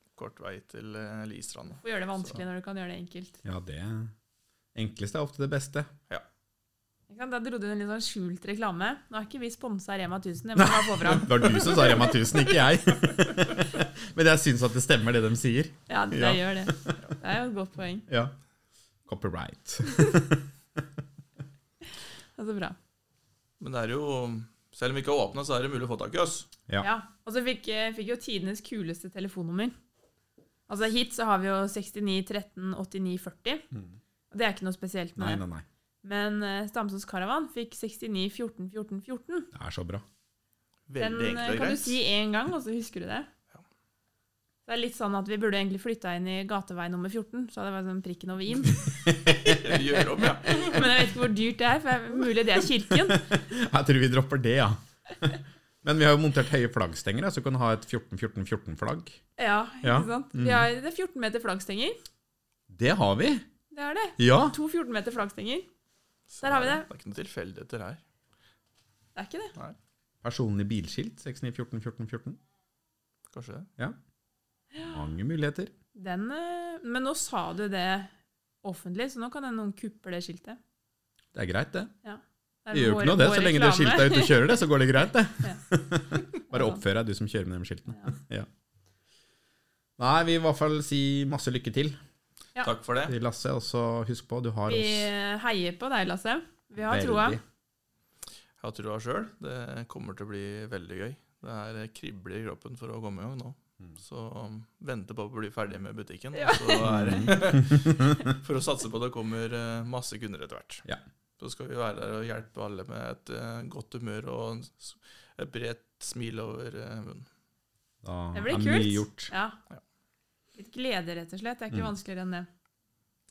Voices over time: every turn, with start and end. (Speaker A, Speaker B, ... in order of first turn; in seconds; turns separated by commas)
Speaker A: 0.2-2.4, Speaker B: 1.8-3.4, Speaker C: 3.4-4.1, Speaker C: 4.8-5.9, Speaker B: 7.1-12.2, Speaker C: 10.6-17.0, Speaker B: 15.9-18.1, Speaker C: 18.1-18.3, Speaker C: 19.1-20.8, Speaker B: 19.9-20.2, Speaker B: 22.4-22.8, Speaker A: 23.6-26.5, Speaker B: 26.8-29.7, Speaker B: 30.7-33.6, Speaker C: 33.7-34.0, Speaker B: 34.3-35.4, Speaker C: 35.2-35.6, Speaker B: 36.0-39.5, Speaker C: 39.5-40.0, Speaker A: 40.9-42.0, Speaker B: 41.0-43.3, Speaker B: 44.7-49.3, Speaker C: 48.8-49.8, Speaker A: 49.4-51.0, Speaker B: 50.2-53.4, Speaker C: 53.1-59.2, Speaker B: 59.4-62.0, Speaker C: 59.8-60.7, Speaker C: 62.7-63.4, Speaker B: 63.7-65.7, Speaker C: 64.2-64.5, Speaker A: 66.3-68.0, Speaker B: 66.4-66.9, Speaker B: 69.2-69.5, Speaker C: 70.2-72.4, Speaker A: 73.3-73.7, Speaker B: 74.7-75.0, Speaker C: 74.8-75.7, Speaker B: 76.0-78.1, Speaker B: 78.6-80.6, Speaker C: 81.3-81.9, Speaker B: 82.0-84.5, Speaker C: 82.7-88.5, Speaker B: 86.5-86.8, Speaker C: 90.0-92.0, Speaker A: 92.6-93.2, Speaker C: 93.1-95.1, Speaker B: 94.7-97.4, Speaker C: 96.8-97.4, Speaker A: 98.6-110.9, Speaker B: 106.3-106.9, Speaker C: 106.9-108.2, Speaker A: 111.4-117.3, Speaker C: 118.0-119.3, Speaker B: 118.3-119.6, Speaker B: 120.5-122.5